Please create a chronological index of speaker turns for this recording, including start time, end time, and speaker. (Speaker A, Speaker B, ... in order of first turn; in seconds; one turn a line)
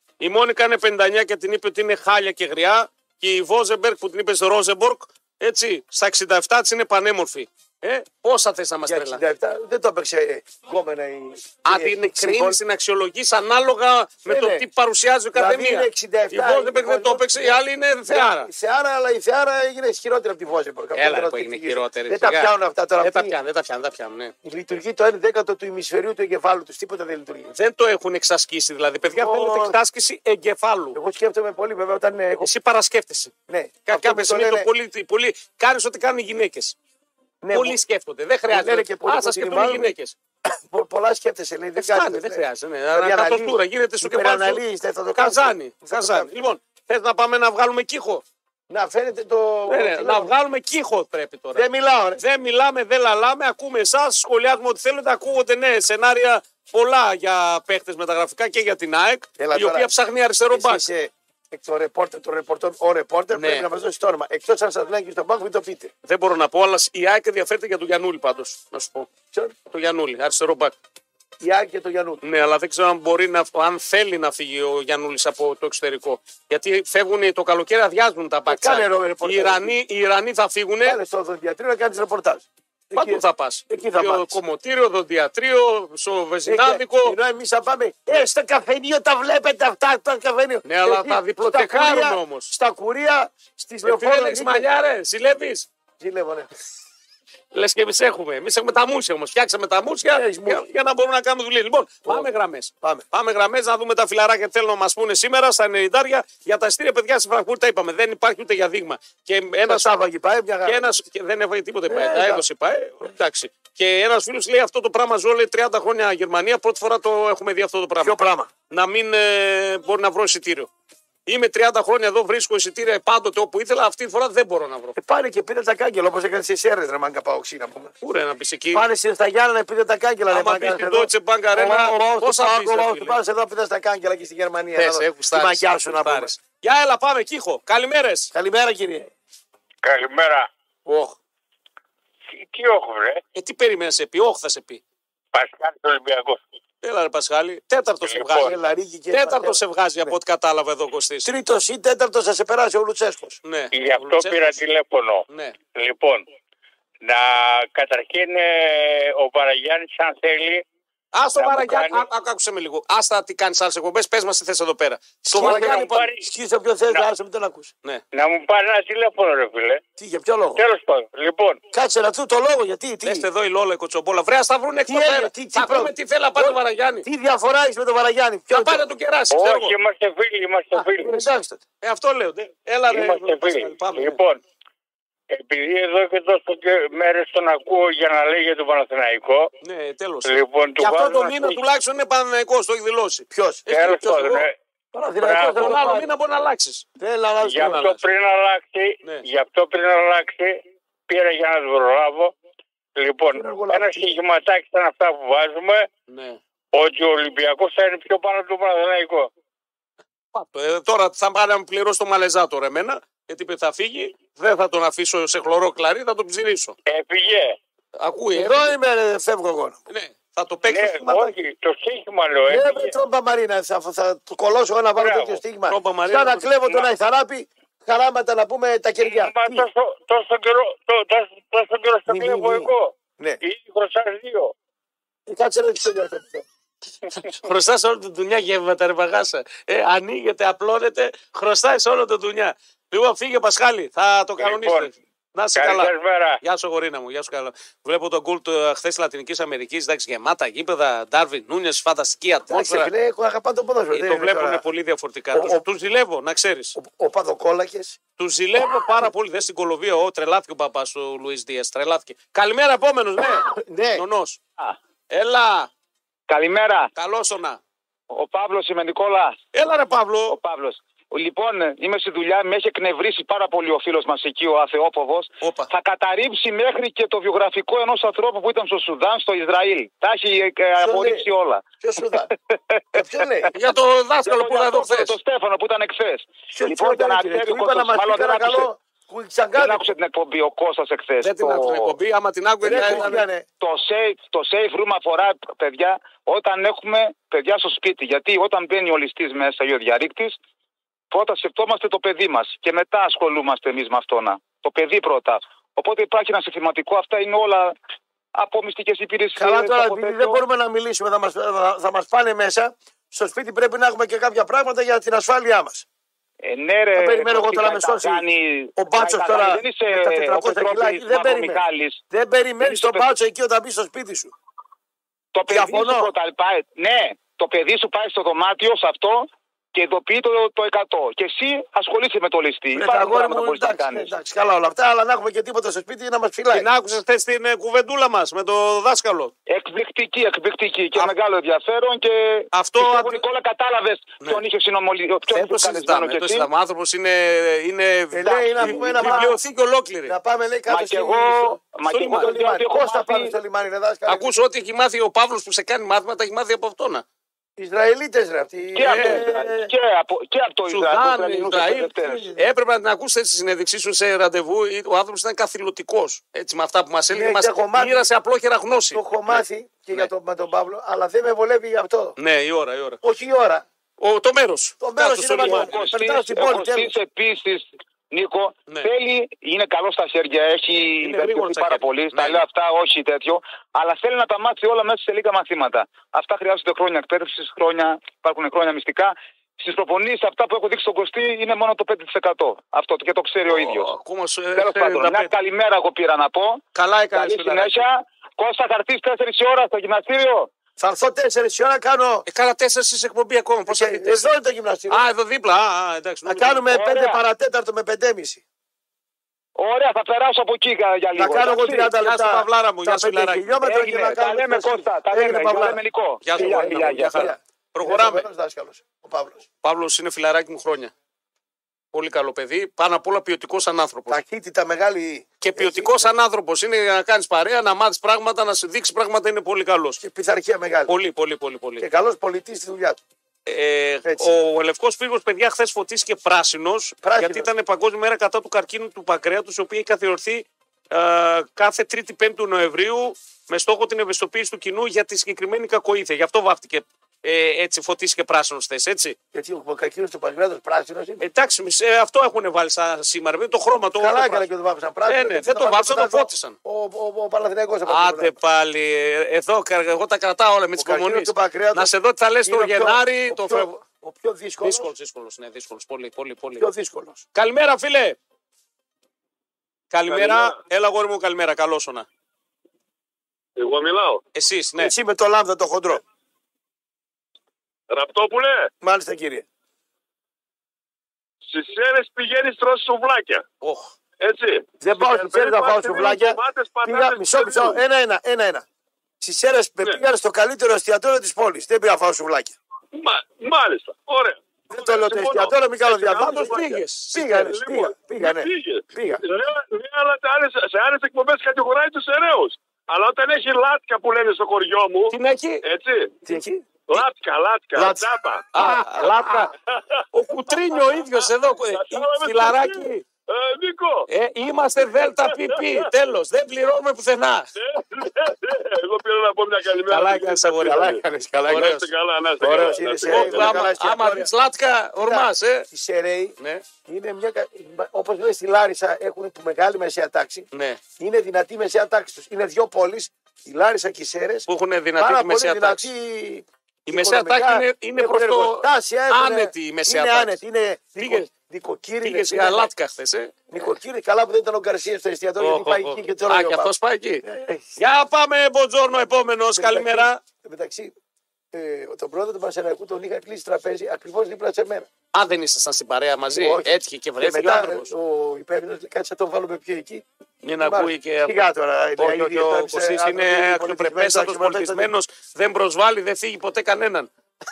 Speaker A: 0.2-9.2
Speaker B: 8.9-12.6
Speaker A: 11.7-18.5
Speaker B: 14.3-14.7
Speaker B: 15.3-23.3
Speaker A: 21.0-24.3
Speaker B: 24.4-27.5
Speaker A: 27.5-31.0
Speaker B: 29.1-29.8
Speaker B: 30.9-32.5
Speaker A: 32.4-33.3
Speaker B: 33.5-34.7
Speaker A: 33.9-36.8
Speaker B: 37.4-37.8
Speaker A: 37.5-40.2
Speaker B: 38.5-39.9
Speaker B: 40.5-46.5
Speaker A: 41.8-44.6
Speaker A: 45.2-48.2
Speaker B: 48.7-50.3
Speaker A: 49.7-51.6
Speaker B: 51.5-52.2
Speaker A: 52.2-60.9
Speaker B: 59.4-59.9
Speaker B: 60.5-65.9
Speaker A: 63.3-63.7
Speaker A: 66.0-69.1
Speaker A: 69.7-70.8
Speaker B: 71.4-72.2
Speaker A: 72.2-81.0
Speaker B: 78.5-79.7
Speaker B: 80.8-84.4
Speaker A: 82.9-87.2
Speaker B: 86.5-94.7
Speaker A: 90.7-92.5
Speaker A: 93.8-95.7
Speaker B: 96.0-96.5
Speaker A: 97.5-109.9
Speaker B: 100.1-100.6
Speaker B: 109.7-110.9
Speaker A: 110.7-118.2
Speaker B: 111.9-112.4
Speaker B: 118.0-118.5
Speaker A: 118.7-120.7
Speaker A: 121.3-125.0
Speaker B: 125.0-127.9
Speaker A: 128.0-128.9
Speaker B: 128.7-136.3
Speaker A: 130.3-133.2
Speaker A: 134.8-138.3
Speaker B: 138.3-139.1
Speaker C: 139.8-140.5
Speaker A: 140.9-141.2
Speaker C: 142.3-143.2
Speaker A: 143.3-144.8
Speaker C: 145.3-146.4
Speaker A: 146.8-148.6
Speaker C: 148.1-148.5
Speaker B: 148.4-150.2
Speaker A: 149.1-151.3
Speaker B: 151.2-153.4
Speaker A: 153.4-154.6
Speaker C: 153.7-156.2
Speaker A: 155.3-155.6
Speaker C: 157.0-160.6
Speaker A: 161.1-166.1
Speaker C: 161.4-162.1
Speaker B: 165.3-167.7
Speaker C: 165.3-166.3
Speaker C: 168.1-169.8
Speaker B: 170.0-170.6
Speaker C: 170.6-171.6
Speaker B: 171.7-173.3
Speaker A: 173.0-177.1
Speaker B: 174.9-178.8
Speaker A: 178.5-179.8
Speaker C: 179.3-181.2
Speaker A: 180.8-181.1
Speaker B: 180.9-181.6
Speaker A: 181.8-184.2
Speaker C: 182.9-184.4
Speaker C: 185.3-189.5
Speaker A: 189.6-194.5
Speaker C: 190.2-191.6
Speaker B: 193.3-193.7
Speaker C: 193.7-194.5
Speaker B: 194.9-196.1
Speaker C: 195.2-196.0
Speaker A: 195.5-196.8
Speaker B: 197.0-197.9
Speaker C: 197.4-202.3
Speaker A: 197.6-198.0
Speaker C: 203.0-205.9
Speaker B: 203.3-204.2
Speaker A: 206.1-206.4
Speaker C: 206.7-209.3
Speaker A: 210.3-216.8
Speaker C: 216.9-217.6
Speaker A: 218.0-218.8
Speaker B: 218.3-219.8
Speaker A: 219.9-221.3
Speaker C: 220.7-223.0
Speaker B: 222.5-229.7
Speaker C: 225.0-225.4
Speaker A: 225.7-226.5
Speaker C: 229.0-234.5
Speaker B: 232.1-233.4
Speaker B: 235.3-236.5
Speaker A: 237.2-252.9
Speaker C: 244.4-244.9
Speaker C: 245.6-246.4
Speaker B: 252.5-254.6
Speaker A: 253.9-256.8
Speaker B: 255.3-255.6
Speaker B: 256.8-258.0
Speaker A: 258.2-264.4
Speaker B: 263.2-264.1
Speaker A: 265.1-265.7
Speaker D: 266.3-266.9
Speaker A: 267.0-267.6
Speaker D: 268.1-269.4
Speaker A: 269.5-270.4
Speaker D: 270.3-283.5
Speaker A: 275.4-275.7
Speaker B: 280.8-281.3
Speaker B: 281.8-282.3
Speaker B: 282.9-283.5
Speaker A: 283.5-285.1
Speaker D: 284.2-288.7
Speaker B: 286.5-289.9
Speaker D: 289.6-291.9
Speaker A: 291.2-293.2
Speaker B: 292.6-293.4
Speaker D: 292.6-300.4
Speaker D: 301.1-307.8
Speaker D: 308.4-310.4
Speaker B: 309.4-315.9
Speaker D: 316.4-322.0
Speaker B: 316.9-318.2
Speaker B: 318.8-324.3
Speaker D: 322.6-323.1
Speaker D: 325.4-334.1
Speaker B: 325.5-326.1
Speaker B: 332.7-336.7
Speaker A: 336.5-339.3
Speaker D: 339.5-346.5
Speaker A: 342.5-343.2
Speaker A: 345.3-350.2
Speaker B: 348.1-349.4
Speaker D: 348.2-349.3
Speaker B: 350.1-354.4
Speaker D: 350.7-353.3
Speaker A: 351.9-352.3
Speaker A: 354.1-357.0
Speaker B: 357.6-359.7
Speaker D: 358.8-362.3
Speaker A: 358.8-359.2
Speaker A: 360.7-370.1
Speaker B: 362.0-362.4
Speaker B: 367.1-368.1
Speaker B: 368.9-372.2
Speaker A: 372.2-373.0
Speaker B: 373.0-373.6
Speaker A: 374.0-375.9
Speaker B: 374.8-376.9
Speaker D: 375.4-393.9
Speaker A: 381.0-382.5
Speaker A: 393.5-395.3
Speaker D: 394.6-400.5
Speaker A: 396.8-397.9
Speaker B: 400.8-402.3
Speaker A: 402.3-404.4
Speaker B: 403.7-405.0
Speaker A: 404.9-406.7
Speaker B: 406.3-408.4
Speaker D: 406.7-407.2
Speaker D: 409.6-411.9
Speaker B: 411.2-415.8
Speaker A: 412.0-413.6
Speaker D: 413.6-417.3
Speaker A: 416.2-418.3
Speaker B: 416.4-419.4
Speaker A: 419.6-420.9
Speaker A: 421.9-424.2
Speaker B: 424.1-426.1
Speaker A: 425.4-430.0
Speaker B: 430.0-430.9
Speaker A: 430.9-431.9
Speaker B: 431.8-433.0
Speaker A: 433.5-449.2
Speaker B: 437.0-437.5
Speaker B: 449.3-451.2
Speaker A: 451.2-454.5
Speaker B: 454.0-458.3
Speaker A: 455.1-456.6
Speaker A: 457.9-463.8
Speaker B: 460.8-461.9
Speaker B: 462.4-464.9
Speaker A: 464.6-466.7
Speaker B: 466.6-467.2
Speaker A: 467.3-468.2
Speaker A: 469.9-472.1
Speaker E: 470.1-470.6
Speaker E: 473.6-474.2
Speaker A: 474.3-474.9
Speaker B: 474.8-476.0
Speaker E: 477.9-478.7
Speaker B: 478.8-479.5
Speaker E: 481.5-483.4
Speaker A: 483.6-483.9
Speaker E: 484.2-487.8
Speaker B: 484.8-488.6
Speaker B: 489.2-492.5
Speaker E: 492.9-506.2
Speaker B: 494.7-496.6
Speaker A: 496.2-497.5
Speaker B: 497.1-499.2
Speaker A: 505.1-505.6
Speaker B: 506.3-506.7
Speaker E: 506.9-508.5
Speaker B: 507.8-509.2
Speaker A: 508.5-509.5
Speaker E: 509.5-514.1
Speaker A: 510.1-513.0
Speaker A: 514.1-517.5
Speaker E: 514.8-515.9
Speaker E: 517.6-523.7
Speaker A: 519.9-521.9
Speaker B: 520.6-521.8
Speaker B: 522.4-524.3
Speaker A: 523.0-525.7
Speaker B: 525.0-530.5
Speaker A: 526.4-526.6
Speaker A: 530.5-530.8
Speaker B: 531.0-534.5
Speaker A: 534.5-535.9
Speaker B: 535.0-542.7
Speaker A: 536.9-540.4
Speaker A: 541.0-541.3
Speaker A: 542.0-543.7
Speaker B: 543.5-546.7
Speaker A: 545.4-547.2
Speaker B: 547.2-547.8
Speaker A: 547.8-550.2
Speaker B: 549.6-550.9
Speaker B: 551.5-554.9
Speaker A: 555.1-557.9
Speaker B: 556.3-560.0
Speaker A: 560.4-561.4
Speaker B: 560.6-564.9
Speaker A: 562.0-567.1